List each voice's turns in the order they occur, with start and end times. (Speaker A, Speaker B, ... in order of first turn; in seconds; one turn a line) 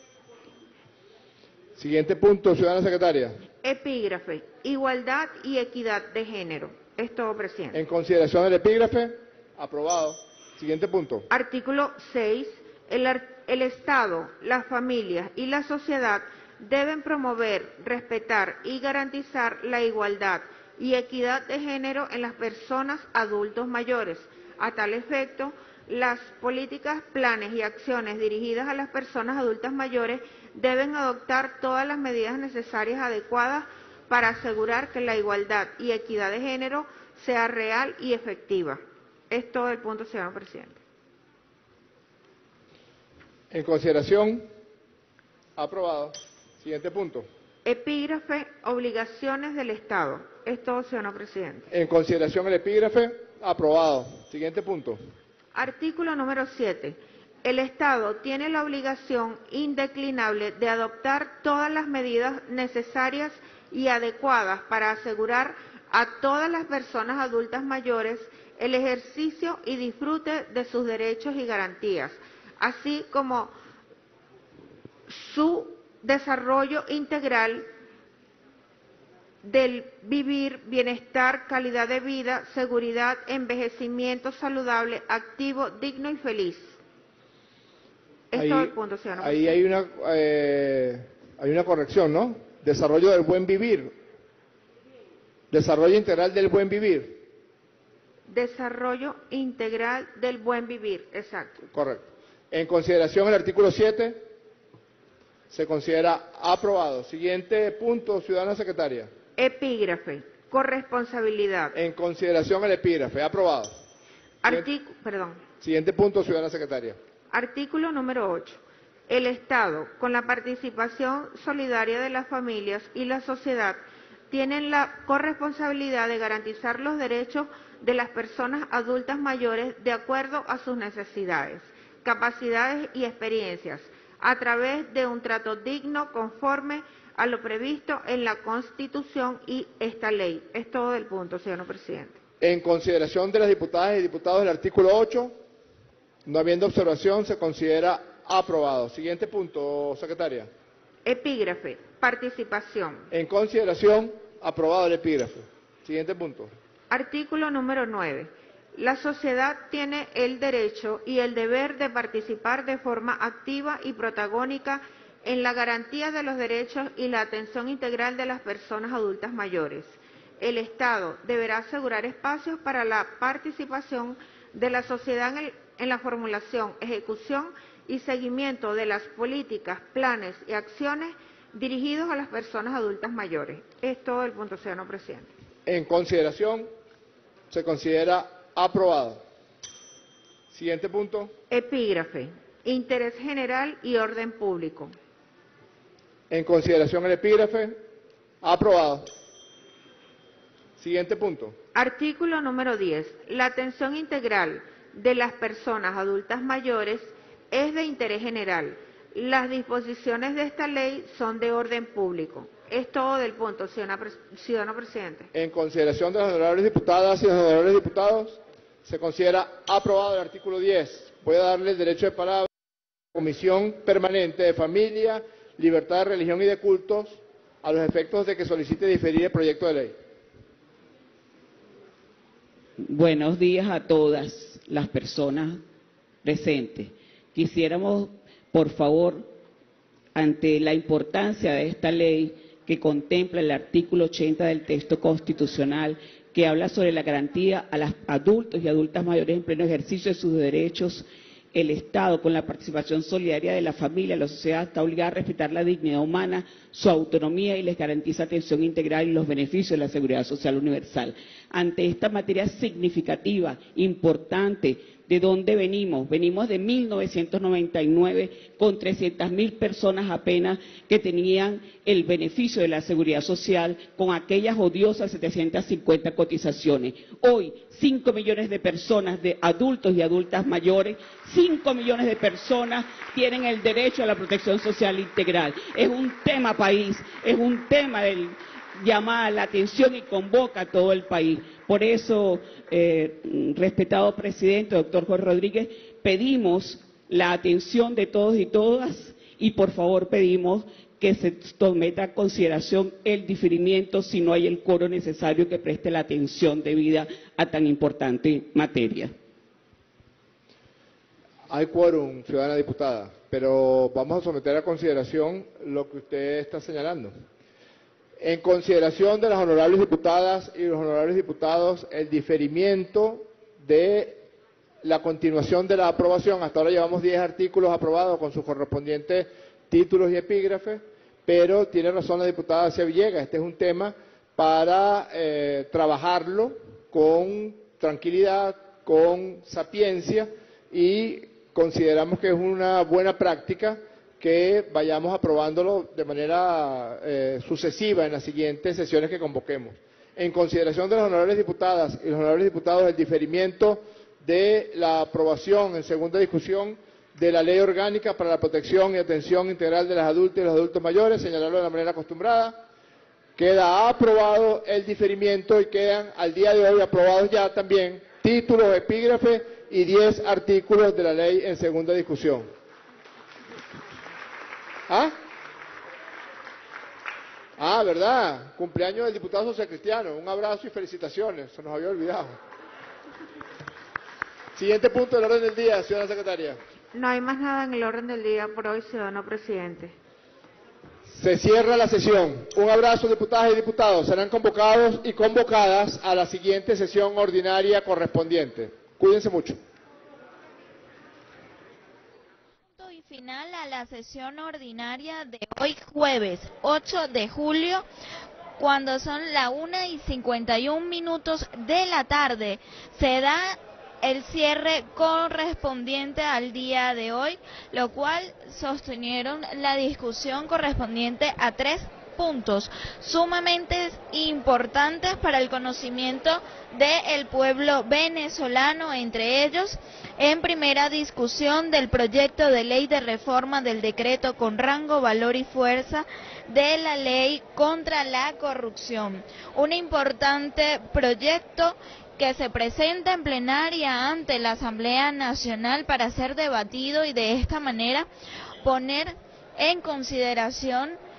Speaker A: 1.8-3.4
Speaker B: 3.6-7.8
Speaker A: 7.7-11.3
Speaker B: 11.3-40.8
Speaker A: 43.5-44.5
Speaker A: 45.5-47.3
Speaker B: 47.6-51.7
Speaker A: 51.7-55.0
Speaker B: 55.5-73.5
Speaker B: 75.1-77.7
Speaker B: 79.4-86.8
Speaker B: 88.3-89.6
Speaker A: 88.3-93.9
Speaker A: 95.5-97.2
Speaker B: 98.3-101.6
Speaker A: 101.6-104.2
Speaker A: 105.5-109.1
Speaker B: 109.4-111.7
Speaker A: 111.7-113.8
Speaker B: 114.4-115.4
Speaker A: 115.6-117.0
Speaker B: 117.3-123.8
Speaker B: 124.3-142.2
Speaker A: 142.4-145.4
Speaker A: 146.2-150.5
Speaker B: 151.0-153.1
Speaker A: 153.1-156.5
Speaker B: 156.9-185.3
Speaker A: 185.7-186.7
Speaker A: 187.5-189.2
Speaker A: 190.5-191.3
Speaker B: 191.5-194.9
Speaker A: 196.3-197.8
Speaker A: 198.4-199.1
Speaker A: 200.8-201.6
Speaker B: 201.7-215.3
Speaker A: 215.3-222.5
Speaker A: 223.1-229.9
Speaker C: 232.8-235.6
Speaker C: 236.2-239.3
Speaker C: 240.1-309.1
Speaker A: 311.5-317.1
Speaker A: 318.2-324.2
Speaker A: 324.8-362.6
Speaker A: 363.4-372.5
Speaker A: 374.9-375.1
Speaker A: 377.6-382.4
Speaker A: 384.5-386.6
Speaker B: 386.9-389.9
Speaker A: 391.1-399.6
Speaker D: 402.8-407.8
Speaker D: 408.6-448.1
Speaker D: 448.6-451.0